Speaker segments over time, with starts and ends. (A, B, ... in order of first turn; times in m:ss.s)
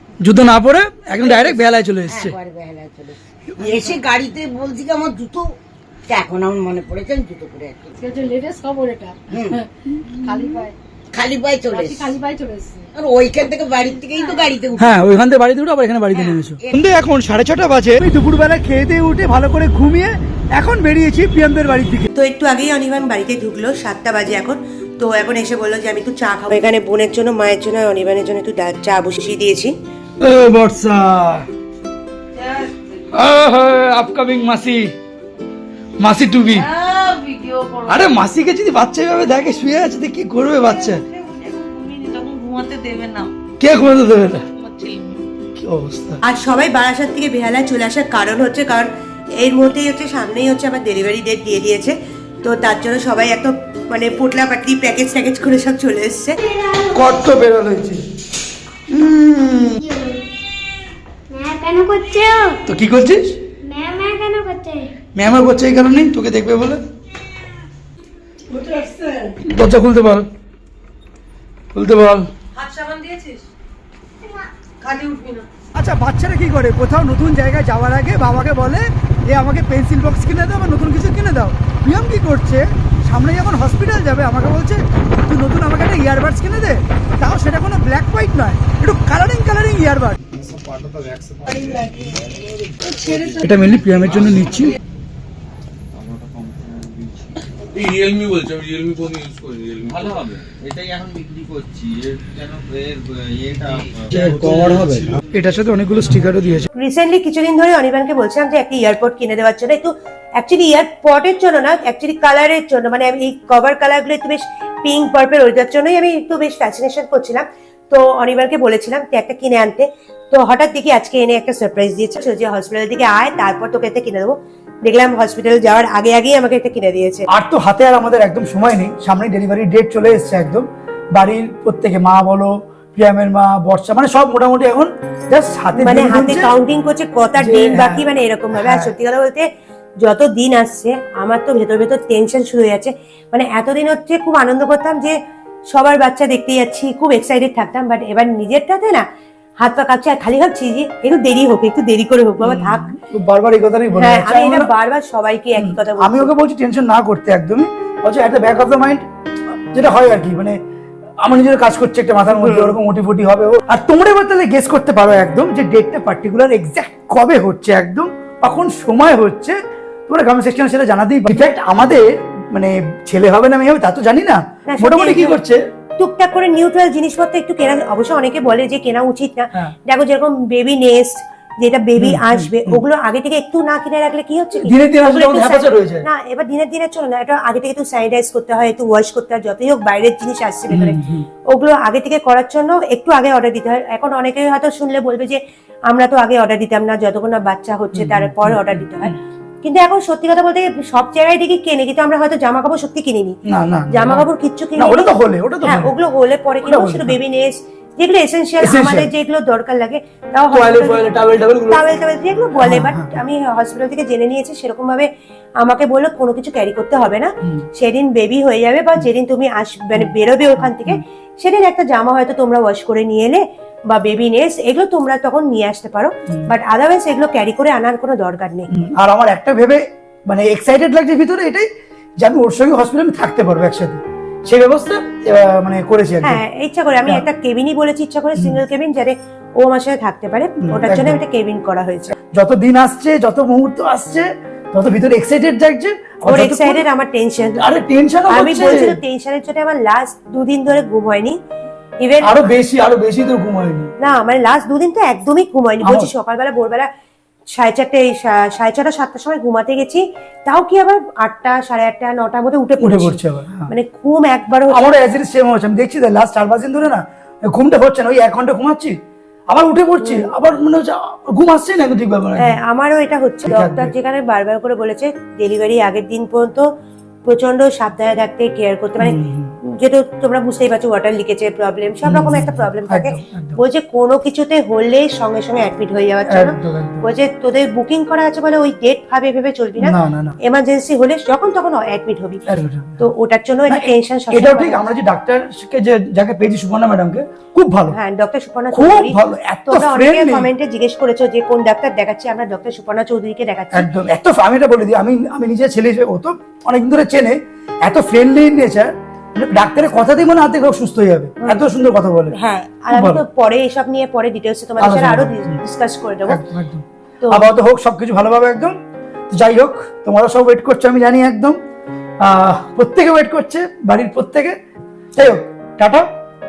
0:00.2-0:02.4 A
0:01.2-0:05.6 B
0:03.6-0:03.9 A
0:06.1-0:07.9 B
0:08.0-0:09.6 C
0:09.3-0:09.6 B
0:10.2-0:10.6 C
0:11.1-0:12.2 B
0:11.7-0:12.8 C
0:12.9-0:14.9 B
0:14.8-0:22.1 A
0:16.1-0:16.8 B
0:22.2-0:29.7 D
0:30.2-0:31.5 A
0:32.4-0:32.7 E
0:33.1-0:34.9 A
0:36.0-0:36.7 A
0:36.6-0:38.0 E
0:37.9-0:41.0 A
0:41.1-0:43.3 E
0:43.6-0:44.4 A
0:44.6-0:45.2 E
0:45.6-0:46.2 A
0:46.2-0:56.4 D
0:56.4-0:57.0 F
0:56.9-0:58.0 A
0:58.9-0:59.8 A
0:59.8-1:00.2 F
1:01.3-1:02.6 F
1:02.7-1:03.4 A
1:03.6-1:04.9 F
1:05.1-1:06.8 A
1:08.5-1:10.3 A
1:11.7-1:12.3 A
1:12.6-1:13.4 E
1:14.8-1:15.4 E
1:15.7-1:30.2 A
1:33.3-1:34.7 A
1:35.9-1:45.1 G
1:44.1-1:44.7 A
1:45.3-1:46.7 A
1:46.7-2:07.2 D
2:07.3-2:16.5 A
2:15.8-2:19.5 D
2:17.4-2:18.9 A
2:20.0-2:25.2 D
2:25.7-2:29.0 D
2:29.6-2:32.9 D
2:32.4-2:34.7 A
2:34.0-2:36.3 D
2:35.6-2:39.0 A
2:39.7-2:40.6 A
2:41.2-2:49.6 A
2:42.3-2:42.7 D
2:50.1-2:55.6 A
2:54.7-2:55.4 D
2:56.0-3:23.4 D
3:02.0-3:02.8 A
3:04.6-3:06.1 A
3:10.7-3:11.2 A
3:17.9-3:19.1 A
3:23.4-3:25.9 A
3:23.9-3:25.1 D
3:25.6-3:31.1 D
3:26.6-3:27.2 A
3:28.6-3:29.1 A
3:30.5-3:31.9 A
3:31.7-3:35.1 D
3:32.6-3:33.2 A
3:35.6-3:48.7 D
3:40.0-3:41.0 A
3:48.7-3:51.7 A
3:52.2-3:56.4 A
3:56.2-4:02.1 D
4:00.6-4:01.2 A
4:02.3-4:06.8 A
4:06.2-4:07.6 D
4:07.6-4:09.0 A
4:08.3-4:11.4 D
4:12.0-4:12.4 D
4:12.2-4:13.9 A
4:14.0-4:16.9 D
4:15.8-4:16.1 A
4:17.5-4:23.2 D
4:22.8-4:23.7 A
4:23.7-4:24.8 D
4:24.7-4:28.9 A
4:29.5-4:32.6 A
4:30.0-4:30.3 D
4:32.4-4:36.6 D
4:33.4-4:33.9 A
4:37.2-4:39.2 D
4:39.0-4:39.5 A
4:39.7-4:52.4 D
4:42.0-4:43.6 A
4:46.3-4:47.0 A
4:49.8-4:50.4 A
4:52.5-4:53.0 A
4:53.0-4:54.8 D
4:53.7-4:58.0 A
4:57.9-5:03.9 D
4:58.7-5:00.5 A
5:03.7-5:12.3 A
5:12.3-5:16.4 D
5:12.9-5:13.2 A
5:14.8-5:15.6 A
5:16.3-5:18.7 A
5:17.2-5:17.5 D
5:19.3-5:21.6 A
5:22.2-5:24.6 A
5:25.1-5:26.0 A